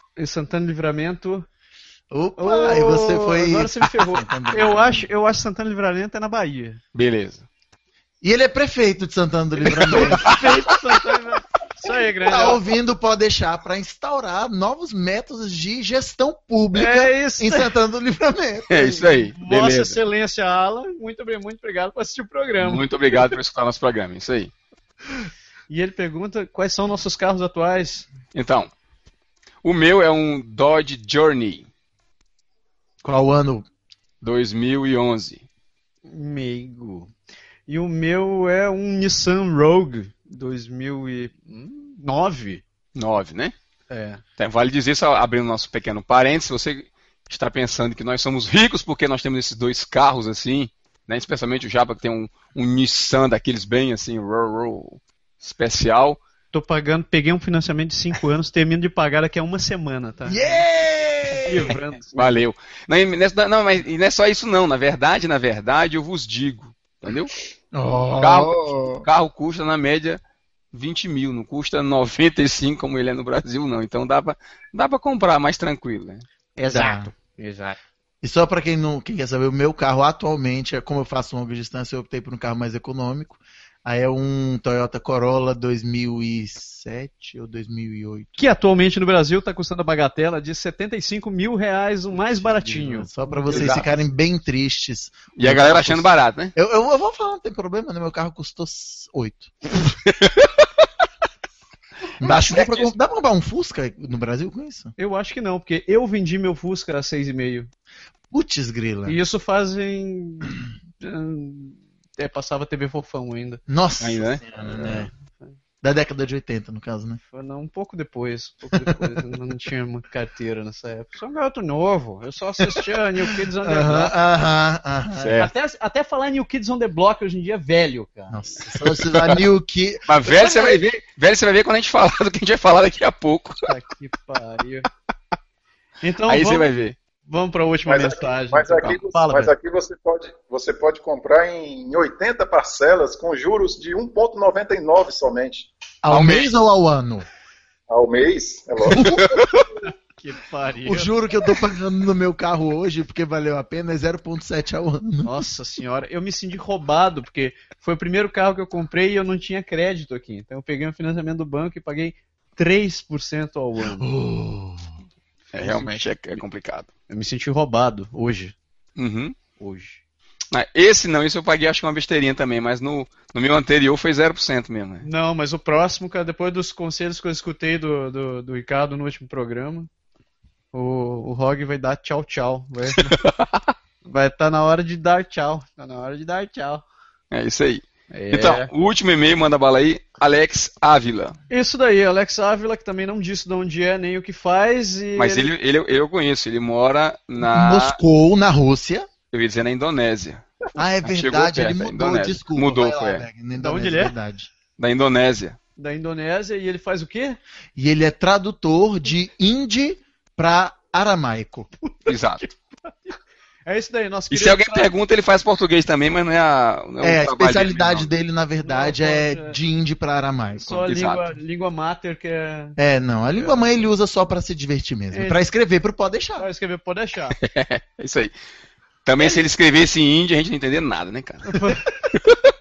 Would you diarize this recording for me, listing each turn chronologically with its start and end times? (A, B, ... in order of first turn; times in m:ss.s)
0:00.2-0:01.5 A
0:02.1-0:05.1 B
0:02.4-0:06.8 A
0:06.9-0:07.5 C
0:08.2-0:10.5 B
0:09.6-0:12.6 A
0:09.8-0:10.6 C
0:12.3-0:19.2 B
0:16.7-0:17.7 A
0:18.7-0:20.0 C
0:19.4-0:23.3 A
0:22.6-0:24.5 C
0:25.7-0:28.1 A
0:28.3-0:28.7 C
0:29.6-0:31.7 C
0:33.0-0:33.7 B
0:34.2-0:35.4 C
0:36.1-0:37.1 A
0:37.7-0:42.6 A
0:43.0-0:43.5 C
0:43.9-0:44.2 A
0:44.4-0:56.2 C
0:56.5-1:00.6 A
1:00.3-1:01.7 B
1:01.4-1:02.4 A
1:02.1-1:07.3 C
1:07.7-1:09.1 B
1:08.2-1:10.2 C
1:10.7-1:16.2 C
1:16.6-1:17.8 A
1:16.7-1:17.1 B
1:18.2-1:28.4 B
1:28.4-1:33.9 A
1:32.3-1:39.9 B
1:33.5-1:33.9 C
1:35.4-1:36.5 C
1:40.1-1:40.7 C
1:42.2-1:44.9 B
1:42.2-1:42.9 C
1:45.0-1:47.7 A
1:48.3-1:49.2 B
1:49.1-1:53.6 A
1:53.7-1:55.1 B
1:54.0-1:54.4 C
1:55.8-1:57.2 B
1:57.3-2:04.2 A
2:03.6-2:05.4 B
2:05.2-2:05.5 C
2:05.4-2:08.4 A
2:08.3-2:10.6 B
2:09.1-2:09.4 C
2:10.1-2:13.7 C
2:10.4-2:10.8 A
2:13.6-2:14.9 A
2:16.0-2:16.7 A
2:16.3-2:17.0 C
2:17.3-2:19.5 A
2:17.9-2:25.7 D
2:26.0-2:27.3 B
2:26.1-2:26.5 C
2:27.9-2:29.2 D
2:28.9-2:29.4 B
2:29.0-2:29.6 C
2:30.2-2:31.1 A
2:30.8-2:35.4 B
2:35.2-2:44.1 A
2:44.0-2:44.9 B
2:45.5-2:46.1 A
2:45.5-2:46.9 C
2:47.1-2:48.6 A
2:49.0-2:49.4 C
2:49.6-2:50.0 A
2:50.5-2:55.1 C
2:55.0-2:59.9 A
3:00.7-3:03.2 A
3:03.0-3:03.7 C
3:04.0-3:06.8 A
3:07.3-3:11.4 C
3:08.1-3:08.7 A
3:11.5-3:15.5 A
3:15.2-3:18.0 C
3:17.4-3:19.1 B
3:19.3-3:20.4 C
3:20.8-3:24.5 B
3:21.1-3:23.3 C
3:23.6-3:24.1 A
3:24.8-3:25.6 C
3:25.8-3:27.4 A
3:27.8-3:31.7 B
3:31.8-3:34.9 A
3:32.1-3:32.4 C
3:34.3-3:38.1 C
3:37.0-3:40.8 B
3:38.6-3:39.6 A
3:40.6-3:42.8 A
3:40.9-3:41.3 C
3:42.8-3:46.5 B
3:43.4-3:43.8 A
3:45.1-3:45.4 A
3:46.4-3:47.4 A
3:47.4-3:48.3 C
3:49.0-3:52.5 C
3:51.5-3:51.9 A